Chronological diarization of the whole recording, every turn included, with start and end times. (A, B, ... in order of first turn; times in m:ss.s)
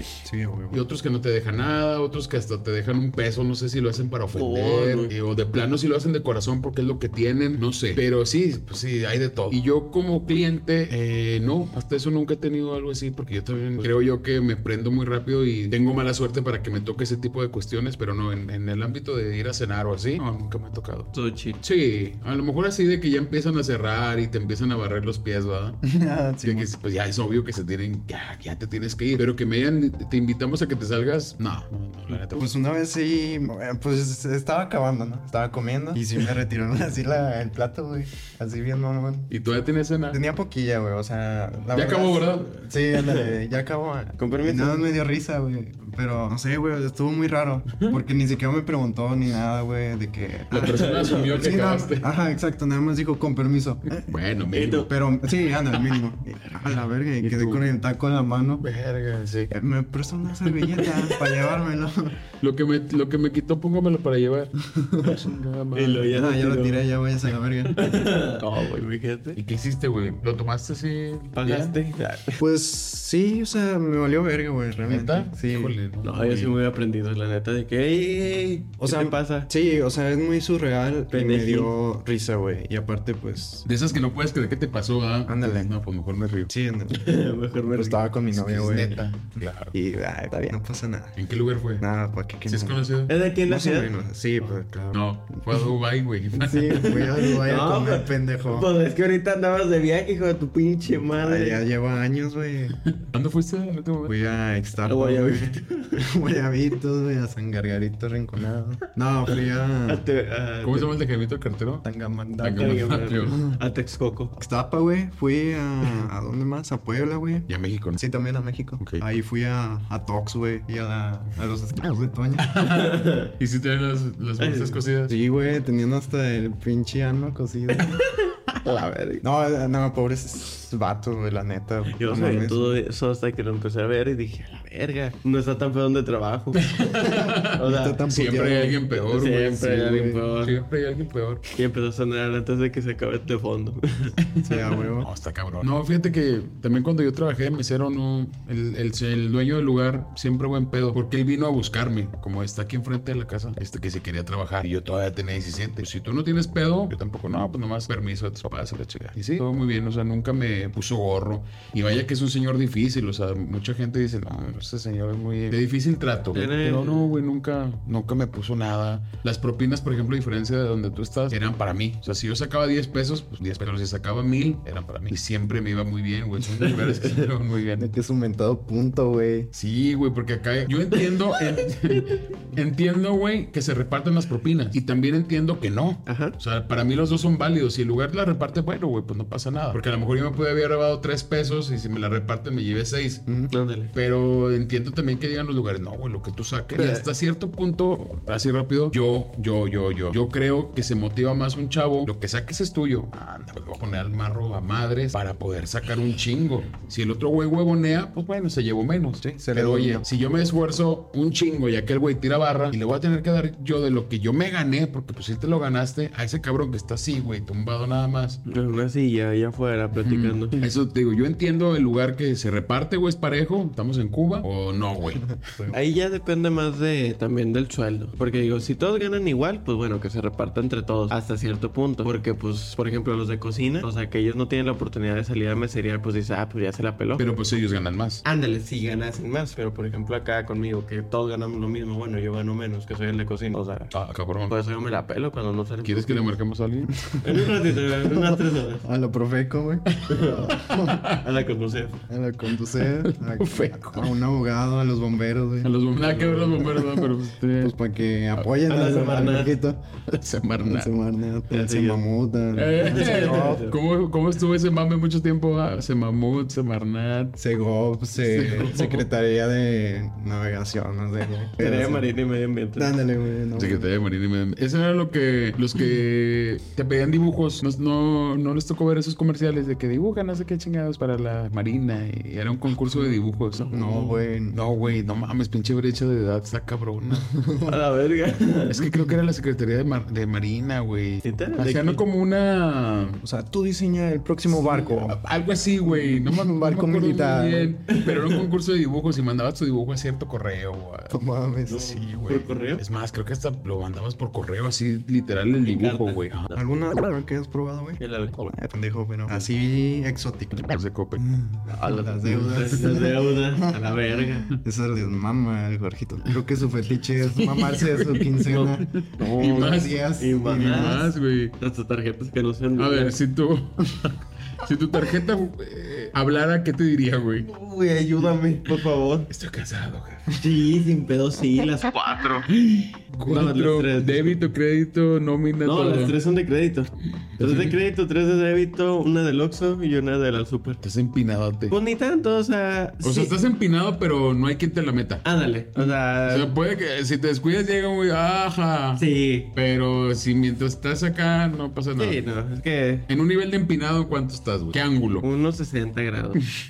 0:00.2-0:00.8 A
0:00.7-0:25.8 B
0:04.3-0:05.1 C
0:21.1-0:21.6 C
0:25.8-0:26.7 A
0:26.4-0:32.4 B
0:32.3-0:39.3 A
0:39.3-0:40.2 B
0:40.1-0:54.1 A
0:41.7-0:42.6 B
0:44.2-0:44.9 C
0:50.5-0:51.4 C
0:50.5-0:52.1 B
0:54.0-0:54.9 B
0:54.5-0:54.9 C
0:54.9-0:58.6 A
0:57.2-0:57.6 B
0:58.6-0:59.5 B
0:59.5-1:02.2 A
1:00.5-1:01.0 B
1:02.4-1:06.2 B
1:04.6-1:05.2 A
1:05.7-1:06.8 C
1:06.1-1:07.8 A
1:07.8-1:09.4 C
1:09.4-1:11.7 B
1:11.3-1:12.4 C
1:12.4-1:15.7 A
1:14.8-1:16.5 B
1:16.0-1:19.5 C
1:18.8-1:23.6 A
1:21.1-1:21.7 C
1:23.6-1:26.5 B
1:25.2-1:25.7 A
1:26.5-1:27.1 A
1:26.9-1:28.0 C
1:27.7-1:29.0 A
1:28.3-1:29.7 B
1:29.7-1:31.2 A
1:31.2-1:31.8 B
1:31.8-1:32.8 A
1:32.4-1:33.1 B
1:33.1-1:33.9 C
1:33.4-1:35.3 A
1:34.5-1:37.0 B
1:36.4-1:38.7 A
1:36.9-1:41.6 C
1:41.2-1:42.8 A
1:42.9-1:44.2 B
1:44.0-1:50.0 A
1:44.8-1:46.1 C
1:49.9-1:50.9 C
1:50.6-1:51.8 B
1:51.8-1:53.6 A
1:52.4-1:53.4 B
1:52.4-1:54.3 C
1:54.4-2:02.6 A
1:57.5-1:58.0 B
1:58.8-1:59.0 B
2:02.4-2:05.1 B
2:02.7-2:03.3 C
2:04.4-2:04.8 C
2:05.1-2:08.0 A
2:08.6-2:09.2 C
2:09.2-2:12.8 A
2:11.9-2:16.7 C
2:16.6-2:21.4 B
2:17.1-2:18.8 A
2:17.5-2:18.0 C
2:18.9-2:20.5 C
2:19.8-2:20.2 A
2:21.6-2:24.2 C
2:24.2-2:57.9 B
2:24.4-2:25.1 A
2:46.3-2:47.0 C
2:57.8-2:59.5 A
2:59.5-3:13.3 B
3:06.0-3:06.3 C
3:13.5-3:13.9 C
3:13.9-3:38.4 B
3:16.8-3:17.0 C
3:29.2-3:30.0 A
3:38.4-3:40.6 C
3:40.0-3:45.4 B
3:45.3-3:45.8 A
3:45.7-3:57.2 C
3:57.2-3:58.2 B
3:58.2-4:03.9 C
4:03.9-4:04.5 B
4:04.5-4:06.4 C
4:05.8-4:06.9 B
4:07.2-4:08.8 C
4:08.1-4:11.0 A
4:10.1-4:12.0 C
4:10.1-4:11.2 B
4:12.1-4:23.7 A
4:12.8-4:14.1 B
4:15.6-4:17.7 B
4:18.7-4:19.6 C
4:20.1-4:20.9 B
4:21.5-4:22.0 C
4:22.5-4:27.4 B
4:22.8-4:23.8 C
4:27.4-4:32.1 A
4:28.2-4:29.0 B
4:31.6-4:32.9 C
4:32.8-4:33.9 A
4:33.6-4:43.8 B
4:42.8-4:43.2 A
4:43.6-4:44.2 C
4:43.7-4:44.6 A
4:44.5-4:47.3 B
4:47.4-4:47.8 A
4:47.6-4:48.8 C
4:48.7-4:53.2 B
4:51.2-4:52.0 C
4:53.2-4:55.2 A
4:54.5-5:01.2 B
4:55.8-4:57.7 A
4:57.9-4:58.4 C
5:01.1-5:02.3 A
5:01.7-5:02.8 C
5:01.9-5:06.5 B
5:05.6-5:06.6 C
5:06.5-5:13.7 A
5:08.0-5:08.4 C
5:10.6-5:11.2 B
5:11.7-5:14.5 C
5:14.5-5:21.1 A
5:17.3-5:21.5 B
5:18.5-5:23.1 C
5:22.8-5:27.4 B
5:27.4-5:29.3 C
5:29.3-5:30.4 B
5:30.3-5:32.5 C
5:32.5-5:36.2 B
5:33.2-5:34.4 C
5:35.6-5:40.8 C
5:37.2-5:37.8 B
5:40.8-5:41.7 B
5:41.7-5:43.3 C
5:43.0-5:45.2 B
5:45.2-5:46.5 C
5:45.8-5:52.2 B
5:49.0-5:49.5 C
5:52.0-5:53.0 C
5:53.1-5:55.2 B
5:55.2-5:56.4 C